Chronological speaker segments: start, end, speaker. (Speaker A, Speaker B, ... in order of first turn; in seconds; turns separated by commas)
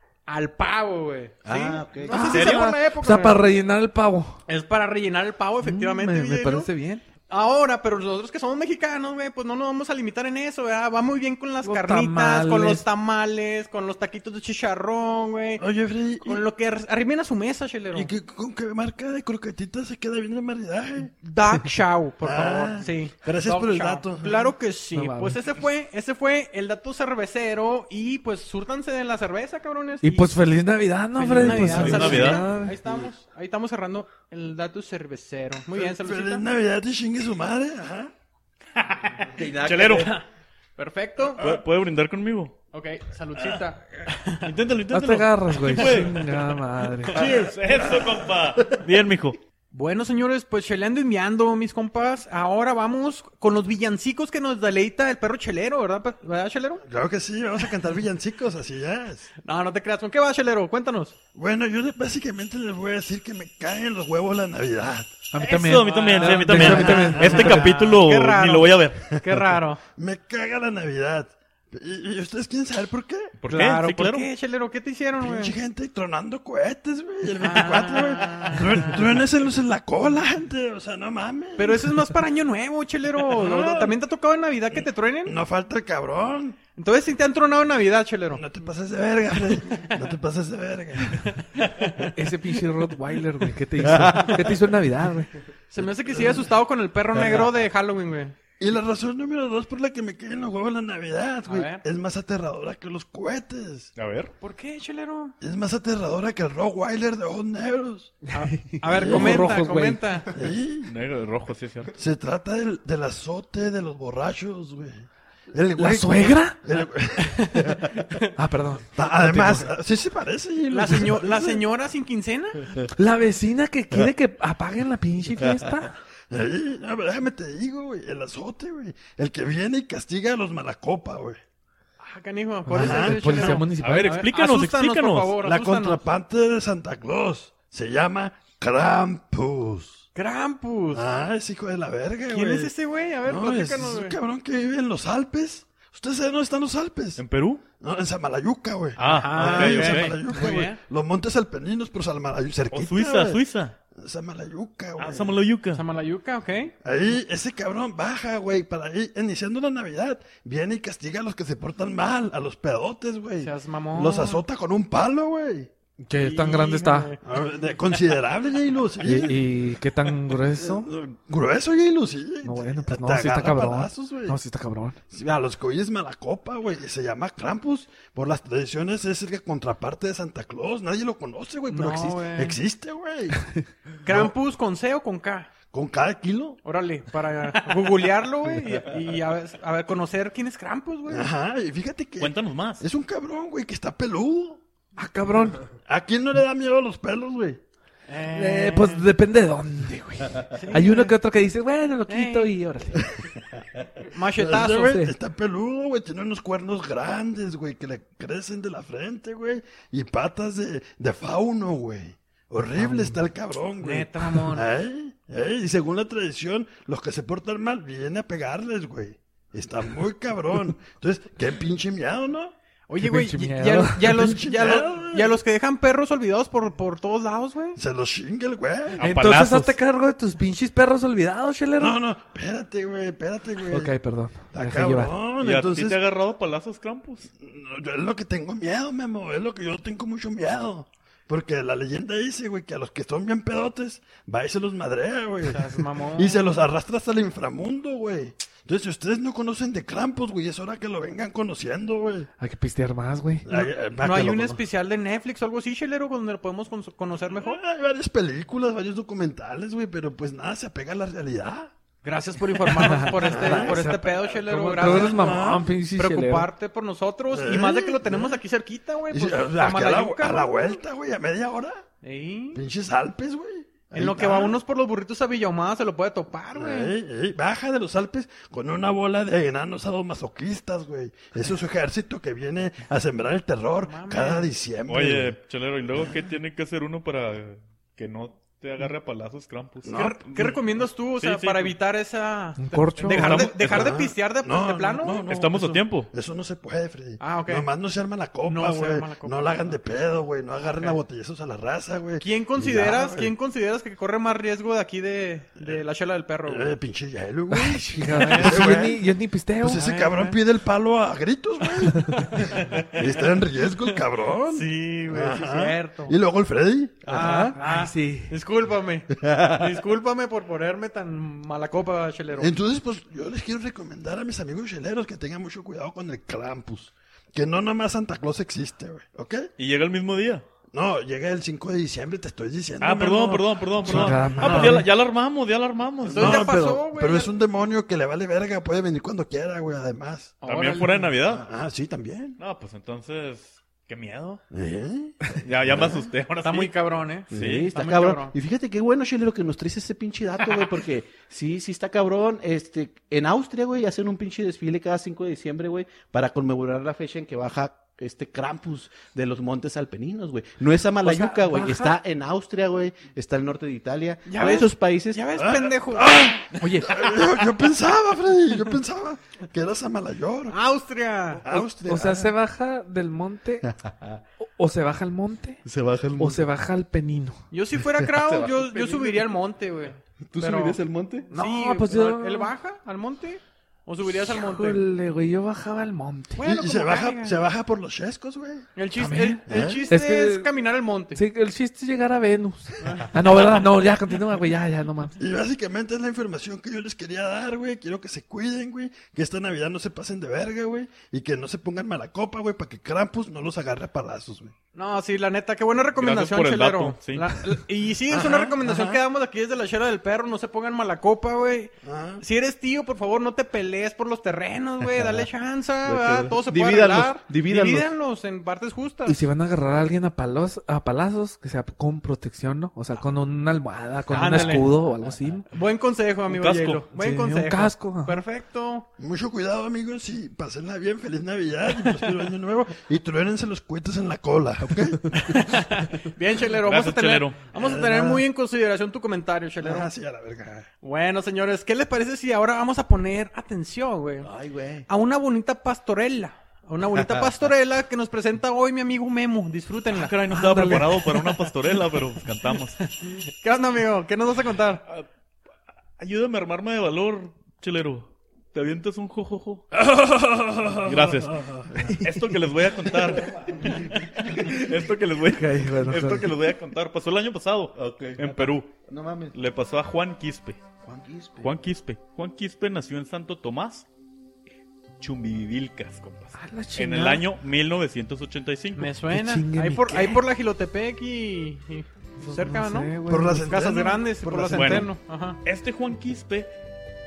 Speaker A: 0.3-3.5, Speaker B: 1.4-2.4, Speaker C: 2.1-4.4, Speaker D: 2.2-2.7, Speaker A: 4.5-6.7, Speaker C: 5.6-7.0, Speaker A: 7.3-15.6, Speaker C: 11.6-12.8, Speaker E: 15.6-16.4, Speaker A: 16.2-18.1, Speaker E: 17.9-21.1, Speaker A: 21.2-30.4, Speaker E: 22.2-24.5, Speaker C: 24.9-25.4, Speaker C: 30.0-32.8, Speaker A: 31.1-36.4, Speaker D: 31.4-32.4, Speaker B: 32.8-33.1, Speaker E: 35.7-38.1, Speaker D: 38.7-40.1, Speaker B: 39.3-40.2, Speaker A: 40.8-41.4, Speaker D: 41.4-42.5, Speaker A: 42.7-44.5, Speaker D: 44.4-46.4, Speaker C: 44.9-47.2, Speaker A: 45.7-46.1, Speaker A: 47.1-47.5, Speaker D: 47.1-49.4, Speaker A: 49.7-56.8, Speaker E: 56.9-59.3, Speaker A: 59.4-61.1, Speaker E: 61.3-65.1, Speaker C: 65.3-67.8, Speaker D: 65.4-69.0, Speaker A: 65.7-69.8, Speaker E: 66.6-67.4, Speaker E: 70.0-73.3, Speaker D: 73.4-74.3, Speaker A: 73.5-75.5, Speaker E: 75.2-82.0, Speaker A: 77.4-79.0, Speaker A: 81.6-85.3, Speaker E: 83.2-84.0, Speaker E: 85.2-86.6, Speaker A: 86.7-88.4, Speaker E: 88.3-91.3, Speaker A: 91.1-92.1, Speaker C: 92.1-95.3, Speaker A: 95.7-98.3, Speaker E: 96.1-96.4, Speaker E: 98.6-103.9, Speaker A: 101.5-101.8, Speaker D: 104.0-104.3, Speaker A: 104.4-105.3, Speaker E: 105.4-108.2, Speaker C: 108.3-110.1, Speaker A: 108.3-110.3, Speaker E: 108.9-109.5, Speaker E: 110.3-110.9, Speaker D: 110.9-111.9, Speaker E: 112.0-118.2, Speaker C: 115.8-116.6, Speaker A: 117.4-118.2, Speaker C: 118.4-119.7, Speaker E: 119.0-121.6, Speaker A: 120.7-122.7, Speaker C: 122.9-126.0, Speaker E: 126.3-131.4, Speaker A: 132.0-136.0, Speaker C: 132.7-134.3, Speaker E: 132.7-133.6, Speaker D: 133.8-135.4, Speaker E: 135.4-140.1, Speaker A: 140.1-141.0, Speaker E: 140.9-142.7, Speaker A: 142.3-144.2, Speaker E: 143.2-147.2, Speaker D: 147.2-147.6, Speaker E: 147.8-153.4, Speaker D: 149.0-150.2, Speaker A: 149.0-150.8, Speaker D: 152.7-153.8, Speaker E: 153.9-155.4, Speaker D: 155.0-155.8, Speaker A: 155.7-156.7, Speaker E: 156.8-165.7, Speaker A: 163.4-164.4, Speaker C: 166.0-167.1, Speaker A: 166.2-167.2, Speaker E: 167.2-169.4, Speaker C: 169.0-170.9, Speaker E: 170.3-174.4, Speaker C: 172.4-175.0, Speaker E: 175.1-183.4, Speaker A: 181.7-182.6, Speaker A: 184.0-185.5, Speaker E: 184.1-184.3, Speaker E: 185.7-186.6, Speaker A: 186.6-191.2, Speaker E: 191.1-194.6, Speaker D: 192.2-192.8, Speaker C: 195.0-195.6, Speaker E: 195.8-197.6, Speaker A: 198.1-199.1, Speaker C: 198.3-203.1, Speaker A: 200.5-201.1, Speaker A: 202.1-202.5, Speaker A: 204.1-205.0, Speaker E: 204.4-222.5, Speaker C: 204.8-205.1, Speaker C: 212.7-213.2, Speaker A: 213.8-214.7, Speaker A: 222.9-227.8, Speaker C: 223.0-224.4, Speaker E: 224.1-225.3, Speaker E: 227.8-229.1, Speaker D: 229.0-229.8, Speaker C: 229.0-232.0, Speaker E: 231.8-233.9, Speaker C: 233.7-235.2, Speaker E: 234.5-236.0, Speaker D: 235.4-237.3, Speaker E: 237.4-252.3, Speaker A: 245.4-246.4, Speaker C: 252.4-253.5, Speaker E: 253.4-254.6, Speaker A: 253.5-257.6, Speaker E: 257.3-261.7, Speaker A: 262.0-270.8, Speaker C: 262.7-266.5, Speaker E: 263.2-263.8, Speaker E: 264.8-265.7, Speaker E: 267.3-268.4, Speaker E: 269.1-271.8, Speaker A: 272.0-272.6, Speaker E: 272.5-274.6, Speaker A: 273.9-276.9, Speaker E: 276.5-285.4, Speaker A: 283.8-284.5, Speaker D: 284.9-290.0, Speaker E: 289.8-290.5, Speaker A: 289.9-295.2, Speaker D: 291.2-291.8, Speaker C: 292.6-293.5, Speaker D: 293.1-294.0, Speaker E: 293.2-303.3, Speaker D: 295.3-296.1, Speaker A: 297.2-297.7, Speaker A: 298.4-299.8, Speaker A: 300.6-301.0, Speaker A: 302.2-306.7, Speaker E: 306.4-309.0, Speaker C: 307.5-309.8, Speaker A: 308.1-308.8, Speaker E: 309.6-317.6, Speaker A: 309.7-310.4, Speaker C: 311.9-312.3, Speaker A: 312.2-313.2, Speaker A: 314.5-316.1, Speaker A: 317.1-322.5, Speaker C: 317.2-318.3, Speaker E: 322.4-329.5, Speaker D: 329.6-330.4, Speaker E: 330.7-334.8, Speaker D: 332.8-336.5, Speaker C: 333.8-334.9, Speaker A: 336.1-337.3, Speaker E: 336.1-340.3, Speaker A: 340.4-341.1, Speaker D: 340.4-341.4, Speaker E: 341.3-342.4, Speaker D: 342.4-344.4, Speaker E: 344.5-345.9, Speaker D: 345.4-346.7, Speaker A: 346.4-348.3, Speaker D: 347.3-347.7, Speaker B: 347.3-365.3, Speaker C: 361.0-362.0, Speaker A: 364.2-366.7, Speaker E: 365.3-370.6, Speaker C: 366.6-367.1, Speaker A: 370.5-371.4, Speaker E: 371.4-372.3, Speaker C: 371.5-373.7, Speaker B: 373.6-374.2, Speaker C: 374.4-375.6, Speaker B: 375.6-376.4, Speaker C: 376.2-377.4, Speaker A: 377.5-380.8, Speaker B: 378.0-379.3, Speaker B: 380.3-381.3, Speaker A: 381.3-384.8, Speaker C: 381.3-382.5, Speaker C: 384.1-386.4, Speaker A: 386.4-387.4, Speaker E: 386.4-388.7, Speaker A: 388.8-391.2, Speaker C: 389.0-390.5, Speaker E: 389.4-389.9, Speaker C: 391.1-395.1, Speaker A: 392.8-393.1, Speaker E: 395.2-404.5, Speaker A: 404.7-419.2, Speaker D: 406.0-407.4, Speaker E: 408.1-409.0, Speaker E: 411.8-412.2, Speaker B: 415.8-417.9, Speaker C: 419.1-425.5, Speaker A: 424.1-424.7, Speaker A: 425.5-428.9, Speaker D: 426.3-426.8, Speaker C: 426.9-428.2, Speaker E: 429.0-435.1, Speaker A: 431.9-432.2, Speaker A: 435.1-439.9, Speaker D: 436.6-437.4, Speaker E: 437.5-438.2, Speaker E: 439.6-440.7, Speaker A: 440.8-444.3, Speaker B: 444.2-444.9, Speaker A: 444.9-450.2, Speaker D: 449.9-452.8, Speaker C: 450.3-451.0, Speaker A: 452.9-454.8, Speaker D: 456.0-459.7, Speaker E: 459.8-461.5, Speaker D: 460.8-461.5, Speaker C: 461.7-462.1, Speaker D: 462.0-468.7, Speaker B: 463.2-464.0, Speaker C: 465.3-466.3, Speaker B: 467.7-469.4, Speaker D: 469.3-470.6, Speaker B: 470.8-471.5, Speaker D: 471.4-473.9, Speaker D: 475.0-478.9, Speaker C: 476.3-477.2, Speaker A: 478.8-485.4, Speaker C: 479.1-480.2, Speaker C: 482.2-483.5, Speaker E: 483.1-484.9, Speaker D: 484.5-484.9, Speaker D: 485.4-486.5